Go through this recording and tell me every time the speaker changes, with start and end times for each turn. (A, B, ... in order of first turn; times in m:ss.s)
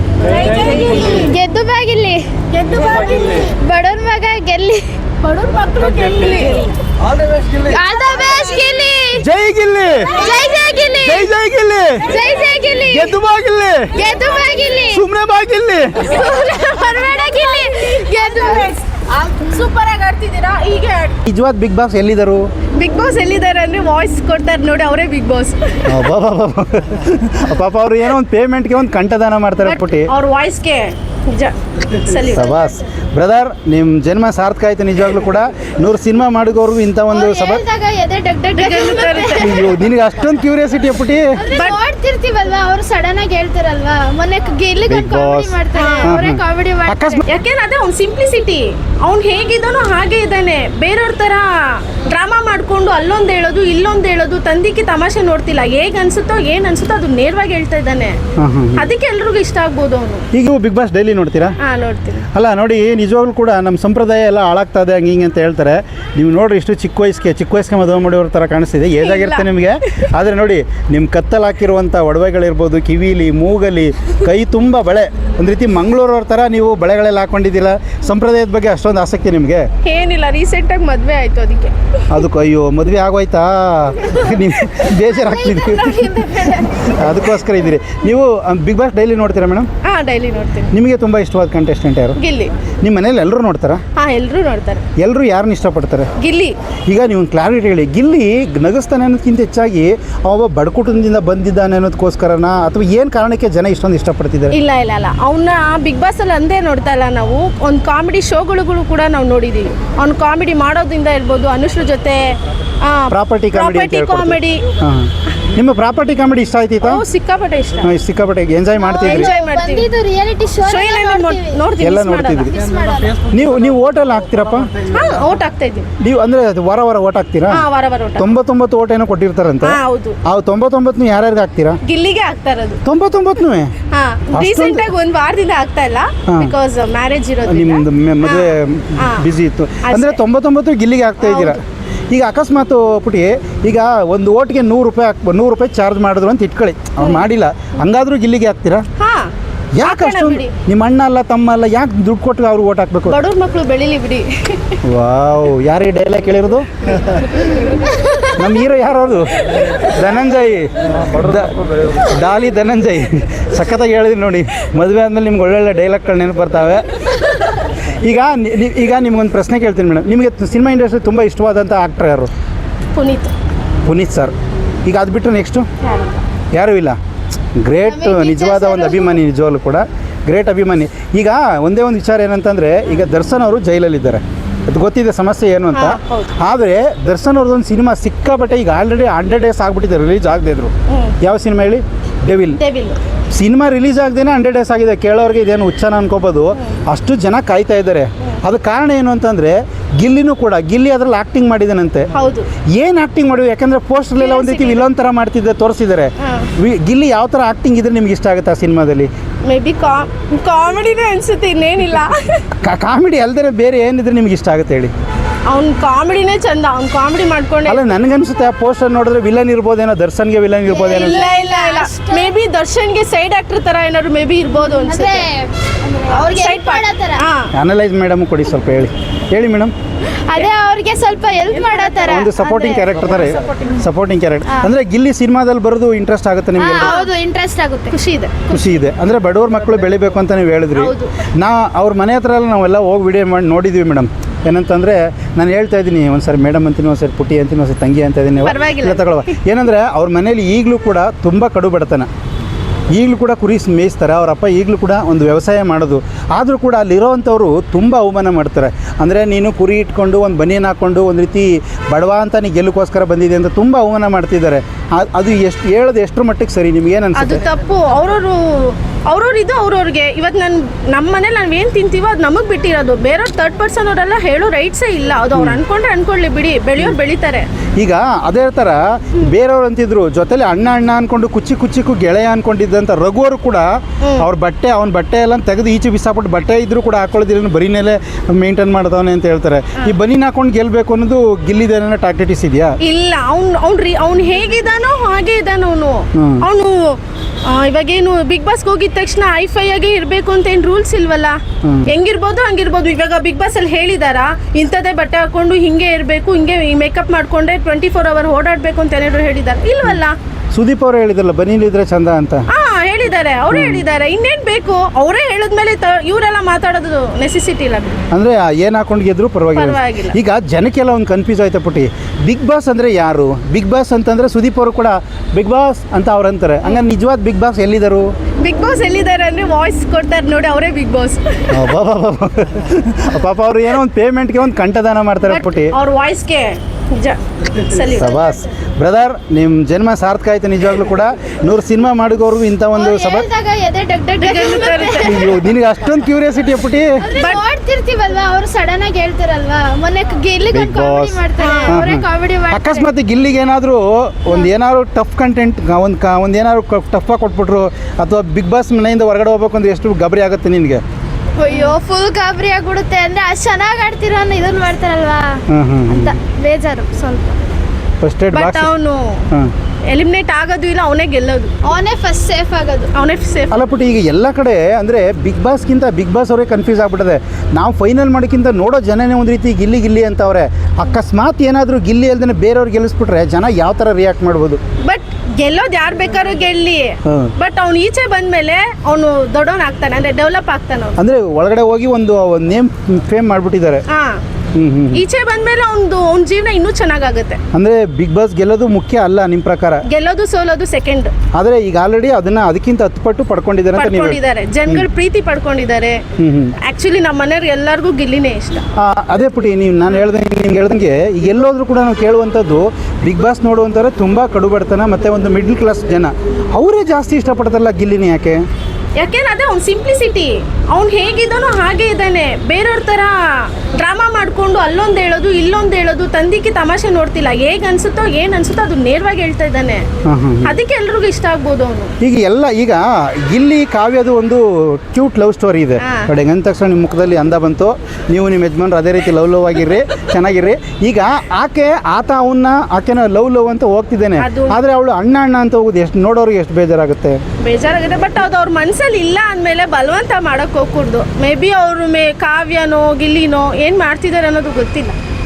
0:00.2-0:01.2 A
0:00.7-0:02.3 B
0:02.5-0:03.5 A
0:03.5-0:04.8 B
0:05.2-0:06.7 A
0:07.6-0:09.3 B
0:09.2-0:10.3 C
0:10.1-0:11.3 B
0:11.0-0:12.1 C
0:12.0-0:13.2 B
0:12.9-0:14.0 C
0:14.0-0:15.1 B
0:14.9-0:16.2 C
0:16.0-0:21.2 A
0:17.0-0:18.7 B
0:21.2-0:22.5 C
0:22.8-0:26.0 A
0:25.9-0:30.1 C
0:29.6-0:32.6 A
0:32.3-0:37.6 C
0:37.1-0:39.8 B
0:38.6-0:39.6 A
0:39.4-0:41.4 C
0:41.4-0:47.2 B
0:41.5-0:41.8 A
0:44.9-0:47.2 C
0:45.8-0:46.2 A
0:47.2-0:58.2 A
0:58.4-0:58.9 C
0:58.7-1:00.2 A
1:00.3-1:01.6 C
1:01.6-1:02.3 A
1:02.3-1:19.7 C
1:09.0-1:09.5 A
1:19.8-1:21.8 A
1:22.1-1:26.1 C
1:24.1-1:27.0 A
1:25.2-1:26.8 B
1:26.8-1:29.7 C
1:29.8-1:30.7 A
1:30.7-1:32.2 C
1:32.2-1:32.5 A
1:32.8-1:33.8 C
1:34.0-1:34.8 A
1:35.0-1:36.1 C
1:36.2-1:36.6 A
1:36.9-1:44.6 C
1:44.5-1:54.6 A
1:53.1-1:57.0 C
1:56.8-1:58.0 A
1:57.8-1:59.3 C
1:58.8-2:01.6 B
1:59.0-1:59.9 A
2:00.6-2:02.7 A
2:01.8-2:02.6 C
2:02.5-2:03.2 B
2:03.2-2:04.7 C
2:04.9-2:05.9 A
2:06.0-2:07.7 C
2:07.5-2:08.3 A
2:08.2-2:11.8 C
2:09.6-2:10.2 A
2:11.8-2:12.8 A
2:12.8-2:13.7 C
2:13.9-2:19.3 A
2:14.3-2:14.9 C
2:16.3-2:16.6 C
2:17.4-2:28.8 C
2:19.8-2:20.2 A
2:21.2-2:21.6 A
2:27.0-2:27.3 A
2:29.0-2:30.5 A
2:29.8-2:33.2 C
2:33.1-2:34.8 A
2:34.8-2:36.7 C
2:38.4-2:52.3 C
2:52.9-2:53.3 A
2:53.8-2:54.3 C
2:54.8-2:55.7 C
2:55.8-2:56.2 A
2:56.5-2:57.0 C
2:57.6-3:12.6 C
2:57.8-2:59.2 B
3:05.7-3:06.3 A
3:10.9-3:11.2 A
3:12.6-3:13.0 A
3:13.3-3:22.1 C
3:22.1-3:22.5 A
3:22.7-3:29.1 C
3:24.2-3:24.9 A
3:26.2-3:26.5 A
3:29.5-3:32.4 A
3:32.6-3:34.9 C
3:35.5-3:37.9 A
3:37.7-3:41.2 C
3:40.7-3:45.3 A
3:40.8-3:42.4 B
3:44.7-3:47.2 B
3:46.1-3:47.5 A
3:47.5-3:49.7 C
3:50.3-3:52.9 B
3:51.5-3:52.1 A
3:52.0-3:57.0 C
3:56.6-3:58.0 B
3:56.8-3:57.1 A
3:57.9-3:58.5 A
3:58.5-4:12.1 C
4:00.7-4:01.1 A
4:08.4-4:09.3 A
4:12.9-4:27.4 C
4:27.1-4:37.5 A
4:35.3-4:35.6 C
4:37.8-4:43.7 C
4:44.0-4:44.3 A
4:44.2-4:52.8 C
4:52.8-5:10.2 A
4:56.2-4:56.4 C
5:01.6-5:01.9 C
5:10.5-5:12.4 C
5:12.5-5:18.0 A
5:13.5-5:13.8 C
5:18.1-5:28.1 C
5:19.5-5:20.2 A
5:28.4-5:31.6 A
5:31.5-5:35.7 C
5:35.2-5:38.3 A
5:38.0-5:43.3 C
5:42.8-5:45.3 B
5:44.2-5:45.3 A
5:45.0-5:46.9 C
5:47.0-5:52.9 B
5:47.2-5:47.4 A
5:50.5-6:00.8 C
5:51.4-5:51.8 A
6:01.4-6:07.4 B
6:05.5-6:06.1 C
6:08.0-6:08.7 C
6:08.3-6:09.2 A
6:09.9-6:11.5 A
6:11.6-6:12.9 B
6:12.9-6:13.6 A
6:13.5-6:24.6 C
6:24.8-6:31.0 A
6:27.0-6:27.3 C
6:31.0-6:33.8 C
6:33.9-6:34.2 A
6:34.5-6:35.0 C
6:34.9-6:37.4 A
6:37.5-6:39.8 C
6:39.8-6:41.1 A
6:41.3-6:44.9 C
6:43.8-6:46.0 A
6:46.2-6:46.5 C
6:46.6-6:48.6 A
6:48.8-6:58.4 C
6:59.0-7:09.8 A
7:10.0-7:10.6 C
7:10.4-7:11.9 A
7:12.0-7:27.2 C
7:15.8-7:16.1 A
7:24.2-7:24.6 A
7:27.4-7:35.0 A